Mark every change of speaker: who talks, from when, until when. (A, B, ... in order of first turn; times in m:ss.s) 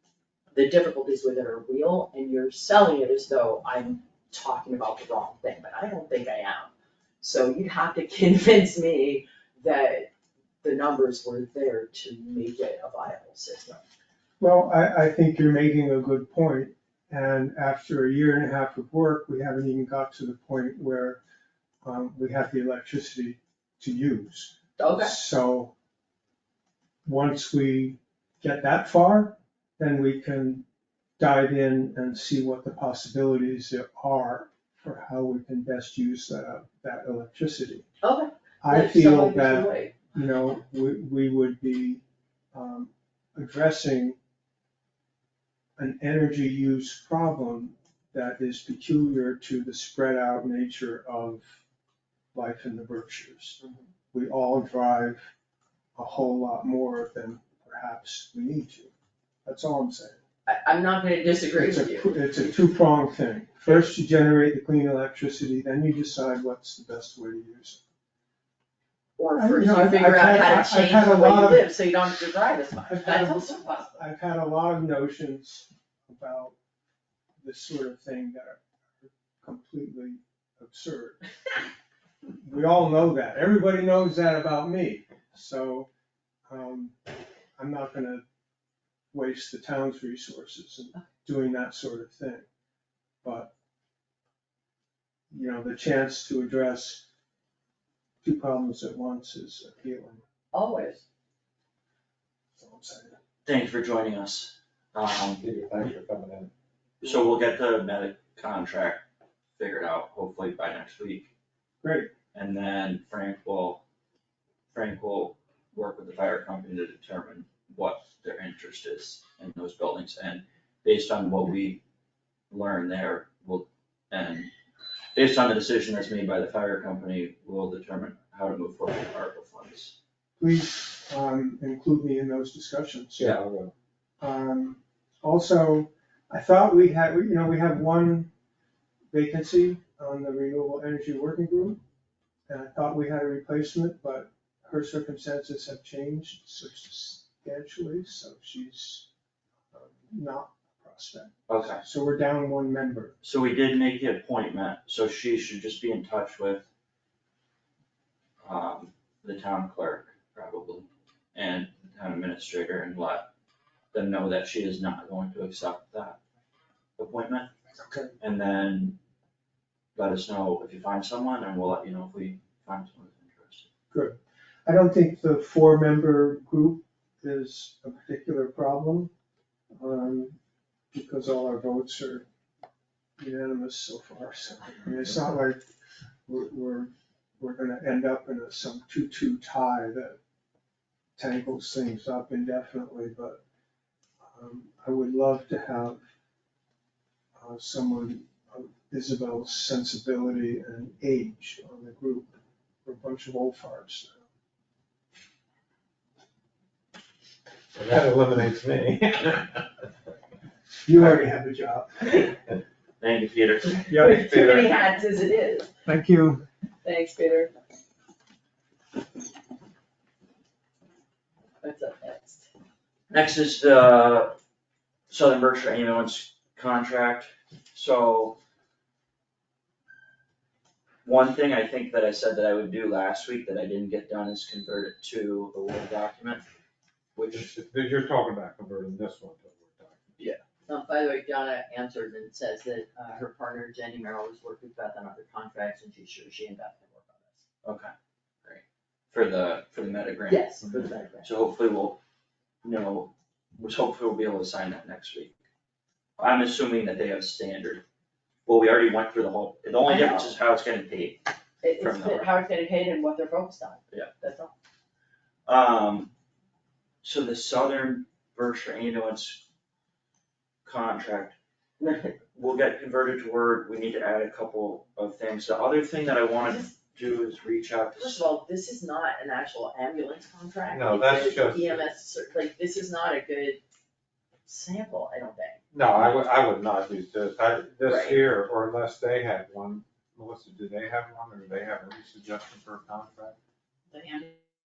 0:00.5-0:10.1 A
0:10.6-0:13.8 A
0:14.4-0:21.2 B
0:21.8-0:25.8 B
0:24.8-0:25.2 A
0:27.0-0:30.6 B
0:31.2-0:37.9 B
0:38.0-0:40.0 A
0:38.6-0:44.2 B
0:45.8-0:51.6 B
0:52.3-0:53.6 B
0:54.1-0:55.3 B
0:56.0-0:58.9 B
0:59.4-1:00.2 B
1:00.5-1:02.2 A
1:01.6-1:07.8 B
1:09.2-1:14.0 A
1:09.4-1:11.7 B
1:12.9-1:16.6 B
1:17.4-1:21.2 B
1:22.4-1:25.9 B
1:26.5-1:27.0 B
1:27.6-1:28.2 B
1:29.1-1:32.5 B
1:33.2-1:33.5 B
1:35.3-1:37.0 B
1:38.2-1:40.2 B
1:40.5-1:41.0 A
1:42.6-1:43.2 B
1:43.4-1:45.4 C
1:45.4-1:46.5 D
1:47.0-1:49.0 C
1:49.6-1:51.3 C
1:51.8-1:52.1 B
1:52.3-1:53.8 C
1:54.7-2:01.8 C
2:02.5-2:04.5 C
2:05.2-2:09.9 C
2:10.4-2:13.3 B
2:13.2-2:13.7 D
2:14.2-2:18.3 B
2:19.1-2:21.8 B
2:22.5-2:29.1 B
2:29.7-2:33.2 B
2:31.5-2:31.8 C
2:33.2-2:36.7 C
2:38.4-2:43.3 C
2:43.9-2:46.2 C
2:47.0-2:47.5 C
2:47.8-2:48.2 B
2:48.2-2:49.0 C
2:50.0-2:53.7 C
2:53.9-2:59.1 B
2:59.8-3:00.4 B
3:00.9-3:02.3 B
3:03.2-3:05.6 B
3:06.3-3:10.2 B
3:11.2-3:13.4 B
3:14.2-3:16.0 B
3:17.4-3:24.3 B
3:27.8-3:29.7 D
3:30.8-3:32.3 B
3:33.0-3:33.9 C
3:33.9-3:34.5 B
3:33.9-3:35.7 A
3:34.0-3:34.7 D
3:35.9-3:36.4 B
3:36.8-3:37.5 A
3:41.6-3:42.5 A
3:43.1-3:44.4 C
3:45.1-3:48.4 C
3:51.0-3:56.4 C
3:57.2-3:57.5 C
3:57.3-4:00.1 D
4:00.7-4:07.4 A
4:07.6-4:07.9 C
4:08.4-4:10.5 C
4:10.3-4:11.3 A
4:11.2-4:12.0 C
4:12.6-4:15.4 C
4:16.2-4:17.8 C
4:18.5-4:21.2 C
4:19.9-4:20.3 A
4:21.6-4:24.5 A
4:21.8-4:22.3 C
4:25.5-4:26.1 C
4:27.0-4:29.4 C
4:30.6-4:38.3 C
4:36.4-4:36.7 A
4:38.0-4:43.6 A
4:40.7-4:41.8 D
4:44.5-4:45.6 A
4:45.7-4:53.4 D
4:47.8-4:48.2 A